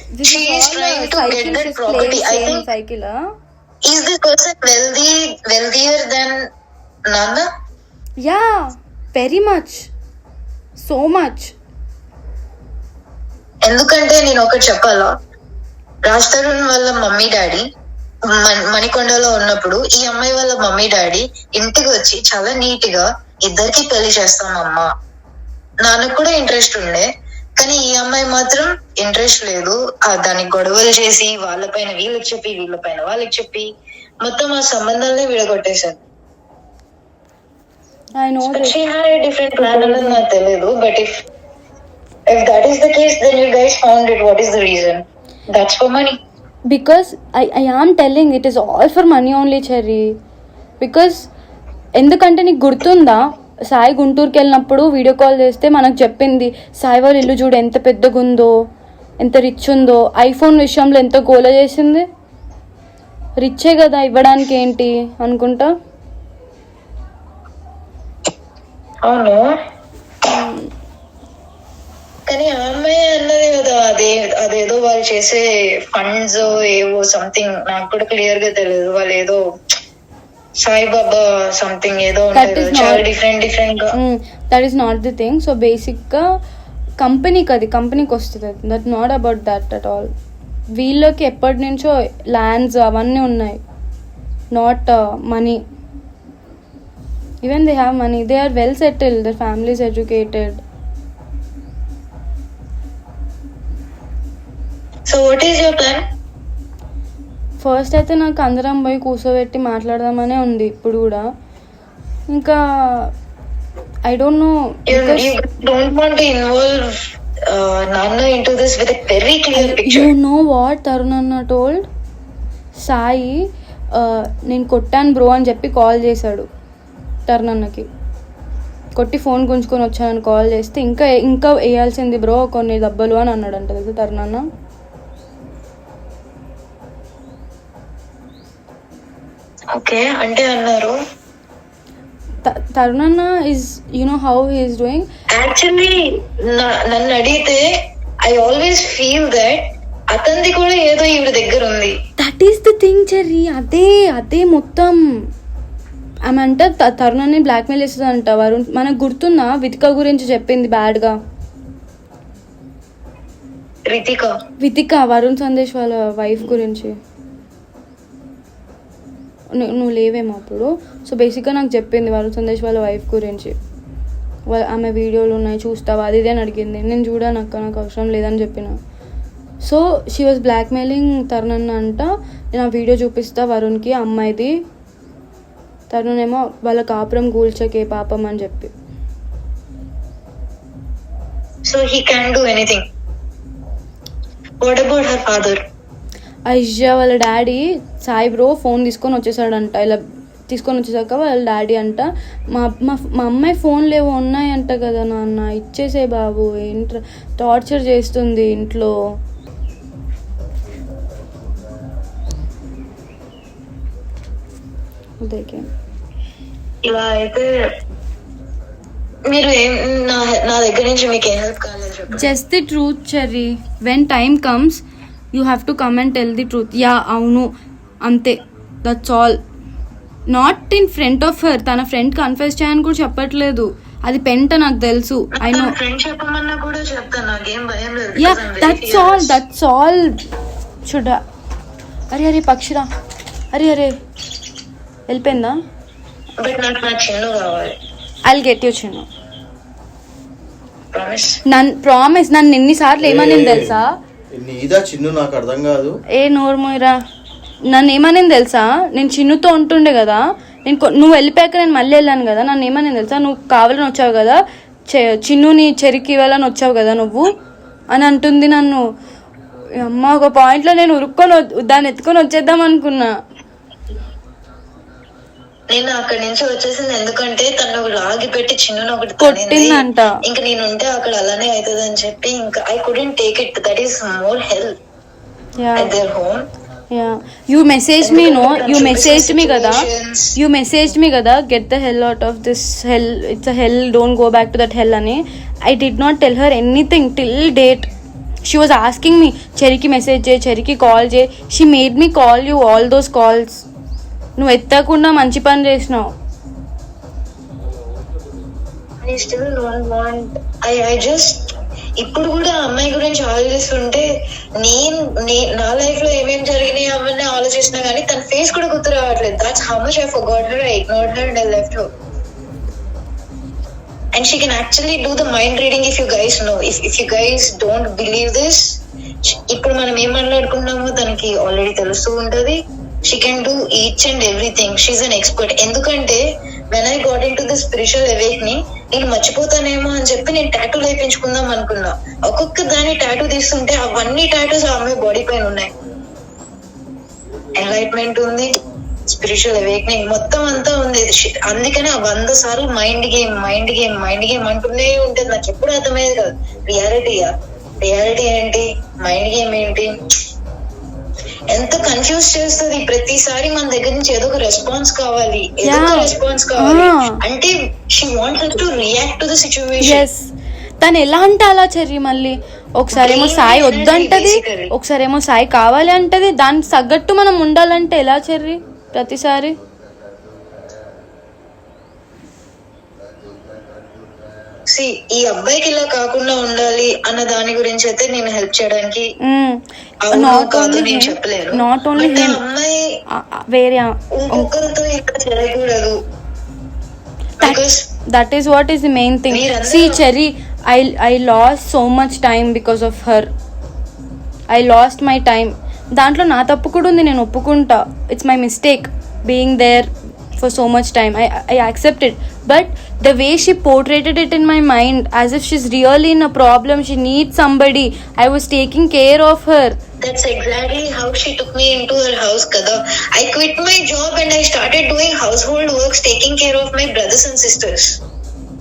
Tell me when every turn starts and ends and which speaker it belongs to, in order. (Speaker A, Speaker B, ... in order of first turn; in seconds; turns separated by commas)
Speaker A: 0.1-3.2, Speaker B: 0.2-2.6, Speaker B: 3.9-6.4, Speaker B: 7.1-7.5, Speaker A: 8.2-9.9, Speaker A: 10.8-11.5, Speaker B: 13.7-15.1, Speaker B: 16.1-17.6, Speaker B: 18.3-24.9, Speaker B: 25.8-27.1, Speaker B: 27.6-33.7, Speaker B: 34.2-36.0, Speaker A: 38.2-38.7, Speaker B: 38.4-41.1, Speaker A: 39.6-40.2, Speaker B: 42.3-46.1, Speaker A: 46.7-50.1, Speaker A: 50.8-51.2, Speaker A: 52.0-58.5, Speaker A: 59.2-62.0, Speaker A: 63.4-65.7, Speaker B: 69.1-69.4, Speaker A: 70.2-70.7, Speaker B: 72.3-79.4, Speaker B: 80.6-83.9, Speaker A: 82.3-83.0, Speaker A: 83.9-86.2, Speaker A: 87.0-90.1, Speaker A: 90.7-93.6, Speaker A: 94.5-95.6, Speaker A: 97.4-100.6, Speaker B: 105.1-106.0, Speaker A: 107.6-111.2, Speaker A: 112.3-113.1, Speaker A: 114.1-115.3, Speaker B: 114.9-116.9, Speaker B: 117.5-120.1, Speaker A: 119.5-121.8, Speaker A: 122.8-123.4, Speaker A: 123.9-126.5, Speaker A: 127.3-127.9, Speaker A: 128.9-134.4, Speaker B: 139.7-141.0, Speaker A: 142.4-145.1, Speaker B: 145.3-147.6, Speaker B: 148.2-151.9, Speaker A: 152.2-155.0, Speaker A: 156.3-161.2, Speaker B: 163.9-164.3, Speaker A: 164.6-166.9, Speaker A: 169.5-173.6, Speaker A: 174.5-178.8, Speaker A: 179.6-184.6, Speaker A: 185.9-188.7, Speaker B: 191.7-192.8, Speaker B: 194.6-195.6, Speaker A: 196.5-208.9, Speaker A: 215.2-215.6, Speaker B: 216.8-217.5, Speaker B: 219.3-222.3, Speaker A: 222.1-227.5, Speaker A: 228.0-229.4, Speaker A: 230.3-235.8, Speaker B: 235.3-239.4, Speaker A: 238.2-240.2, Speaker A: 240.8-241.2, Speaker A: 242.1-242.9, Speaker A: 243.5-243.9, Speaker A: 245.1-245.6, Speaker B: 246.4-247.8, Speaker A: 248.3-249.1, Speaker B: 250.9-251.4, Speaker A: 251.5-253.9, Speaker C: 253.0-253.8, Speaker C: 254.3-256.0, Speaker A: 256.1-257.0, Speaker A: 257.7-264.4, Speaker A: 264.9-267.3, Speaker A: 267.9-268.8, Speaker A: 269.8-273.1, Speaker B: 275.7-284.8, Speaker A: 279.2-280.2, Speaker A: 285.6-285.9, Speaker B: 285.8-286.4, Speaker A: 286.9-297.9, Speaker B: 288.0-290.3, Speaker A: 298.4-303.6, Speaker A: 304.4-306.0, Speaker B: 309.0-314.1, Speaker B: 314.6-321.9, Speaker B: 324.1-345.7, Speaker B: 347.5-348.5, Speaker B: 349.1-360.0, Speaker B: 361.5-370.0, Speaker A: 365.6-367.2, Speaker A: 369.8-379.5, Speaker B: 372.9-374.7, Speaker B: 384.7-389.1, Speaker A: 389.2-392.4, Speaker B: 390.1-393.0, Speaker A: 393.1-394.5, Speaker B: 394.1-396.0, Speaker B: 397.4-397.9, Speaker A: 397.4-403.3, Speaker B: 399.3-400.0, Speaker A: 404.5-419.8, Speaker B: 420.0-428.0